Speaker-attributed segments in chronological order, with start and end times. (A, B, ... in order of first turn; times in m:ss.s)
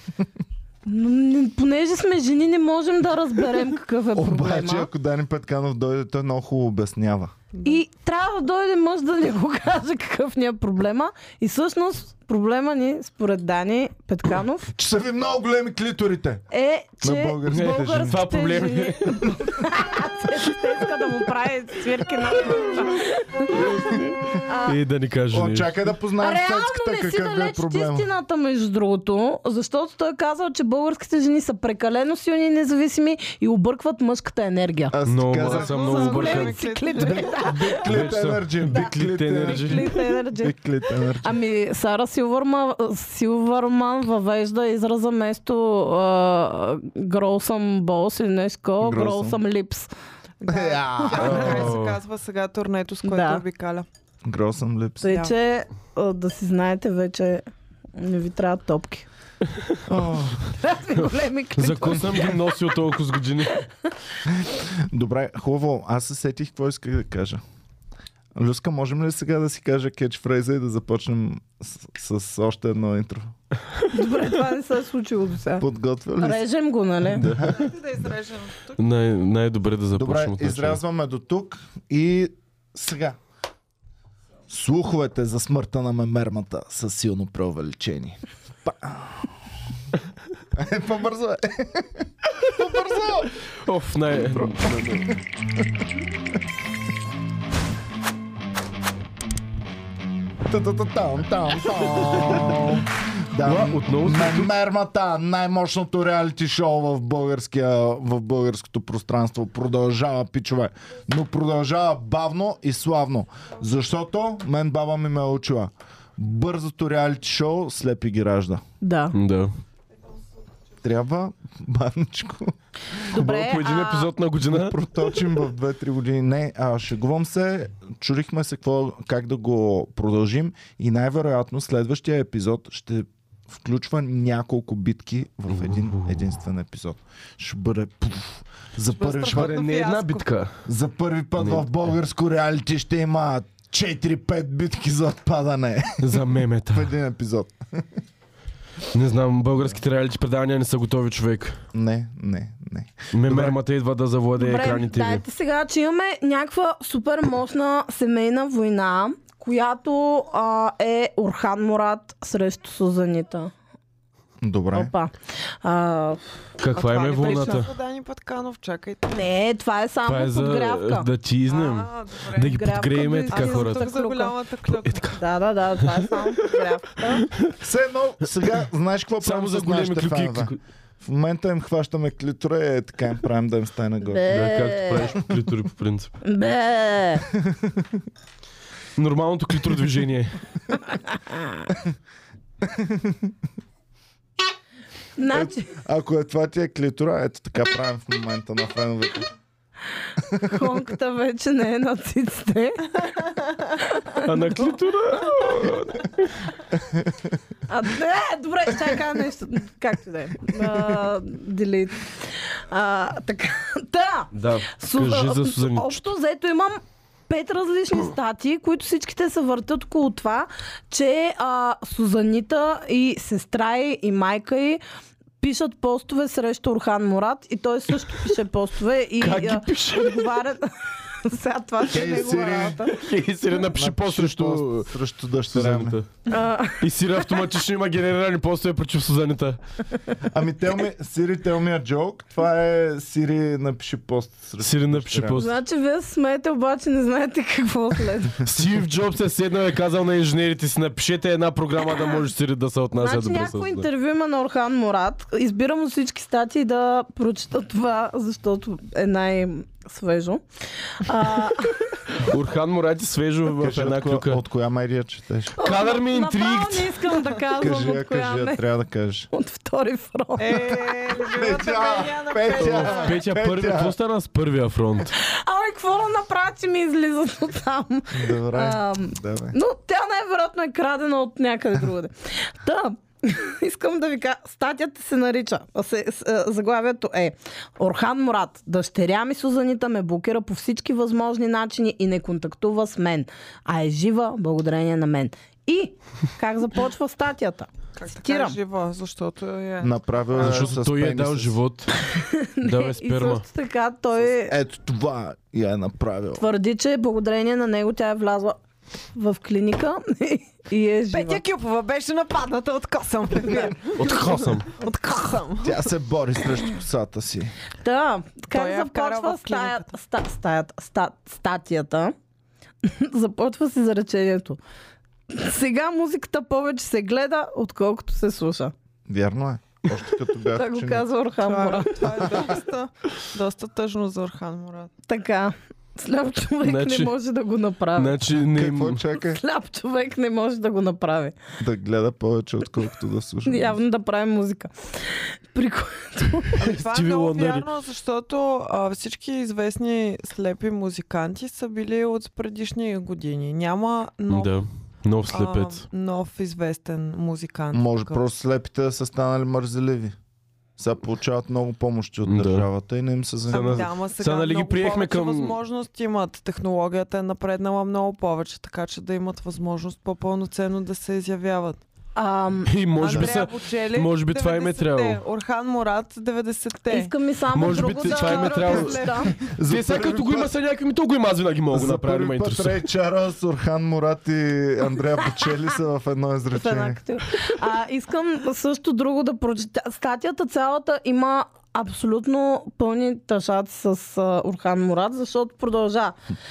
0:00.8-0:04.9 A
0:04.1-0:07.3 B
0:07.5-0:07.8 C
0:07.6-0:14.7 A
0:14.7-0:16.5 B
0:16.5-0:24.8 A
0:17.0-0:18.5 B
0:17.5-0:19.4 D
0:23.5-0:25.8 D
0:25.3-0:28.1 B
0:26.2-0:35.0 A
0:34.9-0:36.1 B
0:35.1-0:36.6 D
0:35.3-0:37.8 C
0:35.9-0:37.9 A
0:37.0-0:41.4 B
0:37.8-0:39.9 D
0:39.4-0:40.6 A
0:41.2-0:49.9 A
0:48.8-0:49.4 B
0:50.4-0:53.9 C
0:50.5-0:51.8 B
0:51.1-0:52.0 D
0:53.0-0:53.4 A
0:54.2-0:55.2 B
0:55.0-0:59.1 A
0:55.1-0:55.3 C
0:59.8-1:00.6 B
1:00.6-1:02.5 A
1:01.6-1:03.6 D
1:04.2-1:07.4 B
1:08.4-1:13.3 B
1:13.9-1:17.3 A
1:15.6-1:16.4 B
1:17.2-1:17.7 D
1:17.3-1:17.5 B
1:17.4-1:18.8 C
1:18.8-1:20.8 D
1:19.9-1:23.2 B
1:24.5-1:29.3 B
1:30.5-1:33.3 B
1:33.5-1:35.1 D
1:34.3-1:35.7 B
1:40.4-1:58.6 B
1:42.0-1:42.8 D
1:43.4-1:44.5 D
1:58.8-1:59.2 A
1:59.1-1:59.5 D
2:00.8-2:02.6 B
2:03.1-2:04.1 A
2:03.1-2:04.8 D
2:04.5-2:19.6 B
2:15.6-2:16.1 D
2:19.0-2:20.3 C
2:19.3-2:20.6 D
2:20.6-2:28.0 B
2:21.4-2:21.7 D
2:26.0-2:26.9 D
2:28.9-2:31.6 D
2:31.7-2:33.6 B
2:33.1-2:35.2 D
2:34.4-2:43.5 A
2:44.4-2:44.9 B
2:44.7-2:46.2 A
2:46.6-2:47.7 D
2:46.7-2:49.3 C
2:49.1-2:51.1 A
2:50.1-2:53.9 D
2:51.5-2:52.6 C
2:52.4-2:54.4 A
2:53.3-2:55.1 C
2:54.7-2:55.1 D
2:55.1-2:57.2 A
2:55.8-2:56.2 D
2:57.6-3:04.4 B
2:59.2-3:00.6 D
3:04.0-3:05.1 A
3:04.3-3:06.2 D
3:06.2-3:07.3 A
3:07.4-3:07.9 B
3:09.0-3:10.4 D
3:11.1-3:11.7 A
3:12.6-3:13.3 B
3:15.2-3:15.8 A
3:15.3-3:19.3 B
3:20.2-3:20.9 B
3:20.4-3:23.2 A
3:23.8-3:24.7 A
3:24.2-3:26.4 D
3:27.7-3:44.8 A
3:34.3-3:36.0 D
3:45.4-3:53.0 A
3:49.2-3:50.3 D
3:51.9-3:52.8 B
3:52.9-3:55.0 D
3:53.6-3:56.0 B
3:55.5-3:56.1 D
3:56.3-3:56.8 A
3:56.8-3:59.6 D
4:00.3-4:05.5 B
4:04.6-4:05.5 D
4:05.4-4:08.4 A
4:08.4-4:13.9 D
4:13.0-4:20.4 A
4:21.0-4:21.9 A
4:22.2-4:24.4 D
4:23.6-4:25.6 B
4:25.6-4:28.6 A
4:25.6-4:27.1 D
4:27.5-4:29.3 B
4:29.3-4:30.9 A
4:30.4-4:33.2 C
4:31.3-4:34.0 B
4:32.6-4:35.1 D
4:35.2-4:58.6 A
4:38.1-4:39.6 B
4:58.0-5:00.7 C
4:59.8-5:01.6 B
5:00.4-5:02.0 D
5:02.1-5:04.6 A
5:02.6-5:03.4 D
5:04.3-5:06.4 B
5:06.4-5:08.6 A
5:09.1-5:11.4 A
5:11.1-5:15.9 C
5:13.9-5:14.7 D
5:15.6-5:17.5 B
5:17.8-5:22.2 A
5:18.5-5:19.9 C
5:22.8-5:24.6 A
5:25.3-5:28.7 A
5:29.1-5:31.1 B
5:30.5-5:32.3 A
5:31.4-5:34.9 C
5:32.1-5:32.5 B
5:35.1-5:38.2 A
5:36.6-5:37.1 D
5:38.0-5:39.0 D
5:38.3-5:39.4 B
5:39.2-5:41.4 A
5:41.6-5:43.8 B
5:43.4-5:46.6 A
5:46.6-5:54.6 C
5:46.6-5:47.7 D
5:54.3-5:55.8 D
5:55.3-5:58.2 C
5:57.7-6:00.2 B
6:00.8-6:03.9 B
6:02.3-6:02.7 D
6:03.5-6:05.6 D
6:03.5-6:11.8 C
6:12.2-6:13.4 A
6:12.7-6:15.2 D
6:13.0-6:17.1 C
6:16.9-6:19.3 A
6:17.5-6:19.1 D
6:17.7-6:19.4 C
6:19.4-6:20.5 B
6:19.7-6:22.8 D
6:21.7-6:27.0 B
6:26.5-6:36.2 A